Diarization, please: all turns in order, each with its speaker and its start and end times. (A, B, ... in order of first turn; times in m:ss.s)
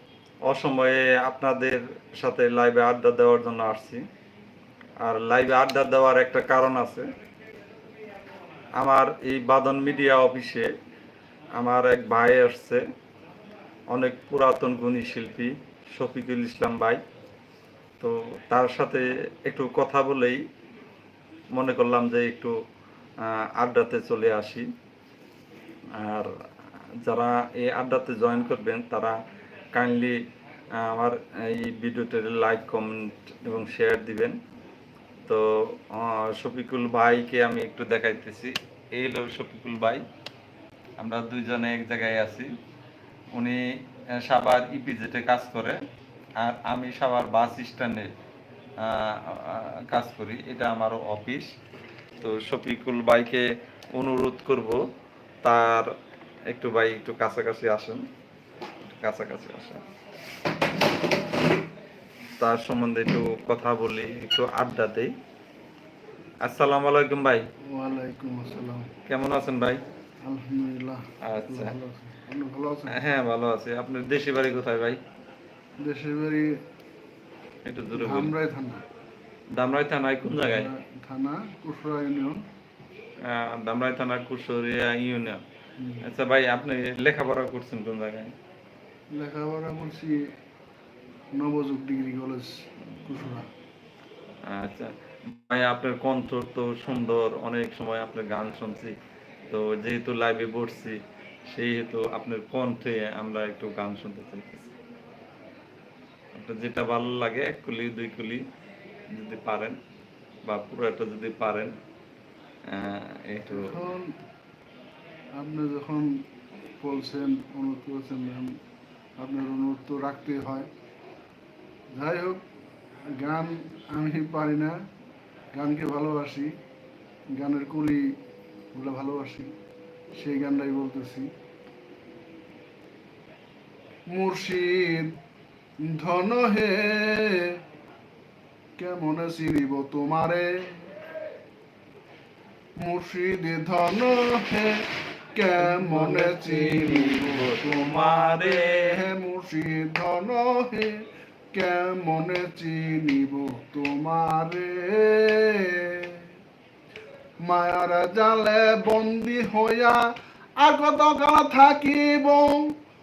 0:00.4-0:04.0 A
0:05.0-0:07.1 A
0:08.8-0:10.7 A
0:11.6-0:12.8 A
0:13.9-0:17.0 A
0:18.0-0:20.4 A
0:21.5-0:22.5 A
0:23.2-0:24.7 A
0:26.0-0:26.3 A
0:27.0-0:29.2 A
0:29.7-0:30.2 A
0:30.8-0:34.4 A
0:35.3-0:40.0 A
0:41.0-0:42.5 A
0:43.4-0:43.7 A
0:44.2-0:45.8 A
0:46.4-0:48.1 A
0:48.8-0:51.5 A
0:52.2-0:54.8 A
0:55.4-0:55.9 A
0:56.5-0:58.0 A
0:58.9-0:59.8 A
1:02.4-1:05.1 A
1:06.4-1:07.4 A
1:07.7-1:08.9 B
1:09.1-1:09.8 A
1:10.2-1:13.0 B
1:11.2-1:11.8 A
1:12.9-1:15.0 A
1:15.8-1:16.5 B
1:17.7-1:18.3 A
1:18.0-1:18.8 B
1:19.6-1:20.7 A
1:20.2-1:22.4 B
1:23.2-1:25.4 A
1:25.8-1:26.0 B
1:26.0-1:28.3 A
1:29.1-1:30.2 B
1:31.4-1:33.5 B
1:34.5-1:38.9 A
1:39.5-1:44.7 A
1:46.4-1:48.4 A
1:49.1-1:49.8 A
1:50.4-1:51.8 A
1:52.7-1:53.8 A
1:53.5-1:54.2 B
1:55.4-1:56.2 B
1:56.8-1:58.6 B
1:59.2-2:00.7 B
2:02.0-2:02.4 B
2:03.2-2:04.7 B
2:05.6-2:06.5 B
2:07.4-2:08.2 B
2:08.7-2:09.5 B
2:10.2-2:11.3 B
2:14.1-2:15.2 B
2:15.8-2:17.6 B
2:18.8-2:20.9 B
2:22.8-2:36.3 B
2:25.6-2:29.0 A
2:37.4-2:40.1 B
2:40.6-2:42.7 B